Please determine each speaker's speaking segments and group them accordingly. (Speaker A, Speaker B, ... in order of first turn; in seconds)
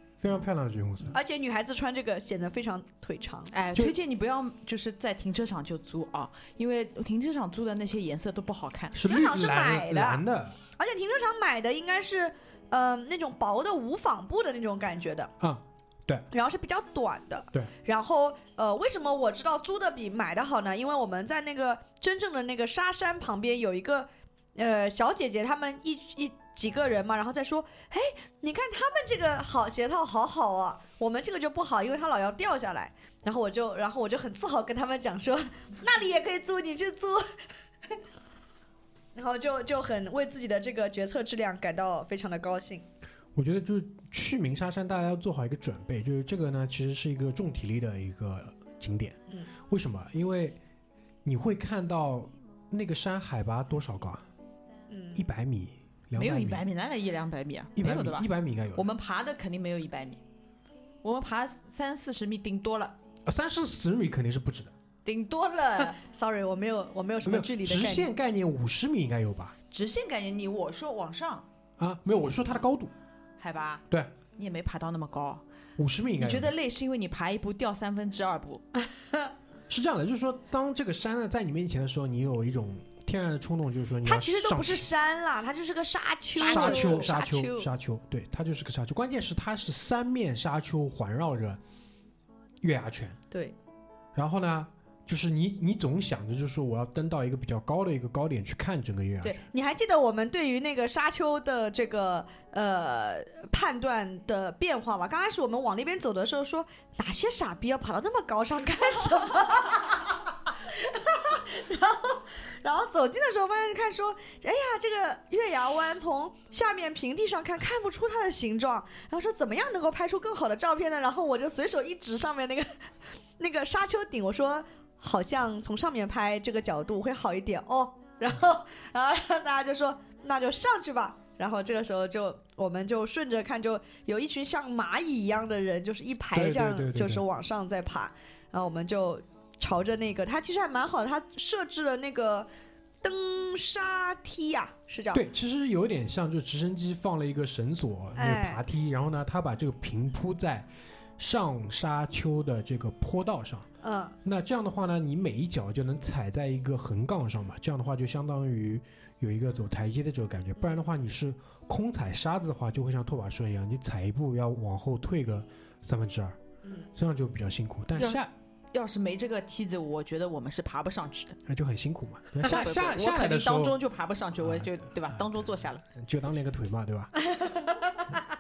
Speaker A: 0.2-1.1, 8.9-10.6, 15.4-16.2, 43.3-50.6, 51.2-54.2, 55.1-56.6, 57.8-58.9, 63.2-64.7, 67.2-69.5, 71.8-72.9, 75.8-76.5, 79.7-84.8, 86.4-91.6, 92.6-93.2, 94.1-99.4, 136.3-137.2, 145.1-153.7, 154.2-166.4, 166.9-168.3, 171.4-173.8, 174.4-177.2
Speaker B: 1.1-3.5, 9.0-10.2, 10.8-15.3, 16.3-37.2, 39.1-42.8, 54.9-55.2, 65.8-68.1, 84.0-87.7, 99.2-110.0, 110.7-122.7, 123.4-142.5, 143.0-145.2, 148.2-148.6, 153.8-154.2, 177.4-177.7
Speaker C: 3.5-9.0, 56.1-60.2, 61.0-63.0, 65.0-66.0, 69.7-71.5, 73.4-73.8, 74.3-75.4, 76.2-78.6, 86.4-87.1, 167.9-171.4, 172.4-175.8